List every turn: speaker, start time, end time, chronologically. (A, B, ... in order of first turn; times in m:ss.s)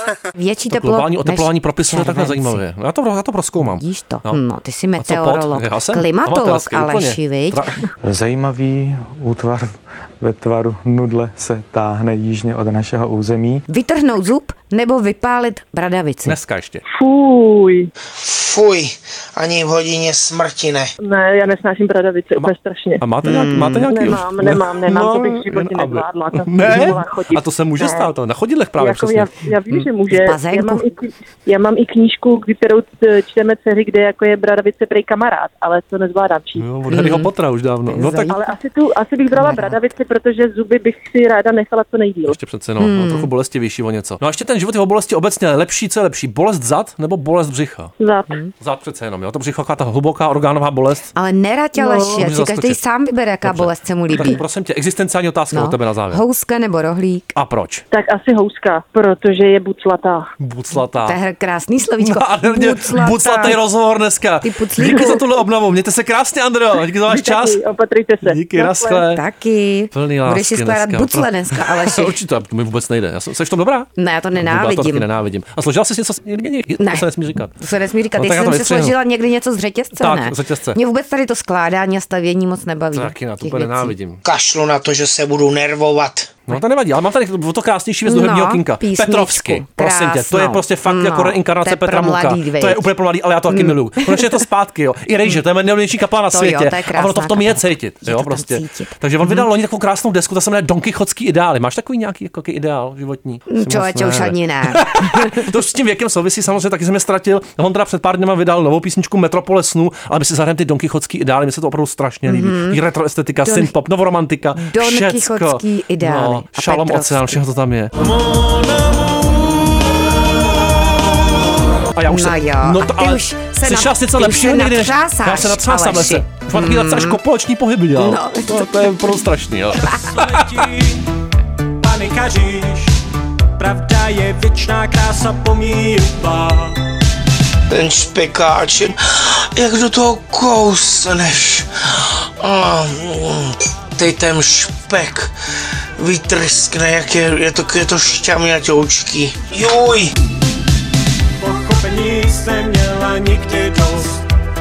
0:00.3-0:02.6 A
0:00.7-0:04.4 B
0:03.6-0:07.7 A
0:05.0-0:07.8 B
0:08.0-0:13.6 C
0:13.7-0:16.4 A
0:16.2-0:16.8 B
0:16.9-0:17.9 D
0:18.2-0:20.9 E
0:21.0-0:23.0 D
0:22.4-0:29.4 B
0:23.2-0:24.1 A
0:23.9-0:28.1 D
0:28.8-0:36.6 D
0:29.7-0:30.9 A
0:36.6-0:38.4 B
0:36.9-0:37.3 A
0:37.9-0:38.4 A
0:38.3-0:42.4 D
0:39.3-0:39.8 A
0:42.2-0:47.9 B
0:42.8-0:43.3 A
0:48.0-0:48.4 D
0:48.6-0:51.1 B
0:51.1-0:54.4 A
0:51.8-0:52.3 D
0:52.2-0:52.8 B
0:53.4-0:56.2 B
0:55.5-0:57.3 A
0:57.3-0:57.8 B
0:57.9-1:00.3 D
1:00.4-1:01.2 B
1:01.0-1:03.6 A
1:02.0-1:07.6 B
1:04.4-1:05.2 A
1:07.1-1:09.0 D
1:08.2-1:09.2 B
1:09.0-1:12.2 A
1:09.9-1:17.6 B
1:14.0-1:15.0 A
1:16.8-1:17.1 A
1:17.6-1:23.9 A
1:18.2-1:19.0 B
1:20.0-1:20.8 B
1:22.9-1:24.2 B
1:24.2-1:26.3 E
1:26.5-1:57.9 B
1:28.0-1:32.9 A
1:33.5-1:34.4 A
1:36.3-1:39.5 A
1:43.5-1:45.4 A
1:52.2-1:52.8 A
1:53.4-1:53.7 A
1:54.5-1:57.4 A
2:01.9-2:10.6 B
2:02.1-2:07.2 A
2:07.9-2:09.2 A
2:10.1-2:11.0 F
2:11.8-2:12.9 F
2:13.6-2:16.7 F
2:17.7-2:25.3 E
2:26.0-2:30.1 E
2:31.4-2:34.1 F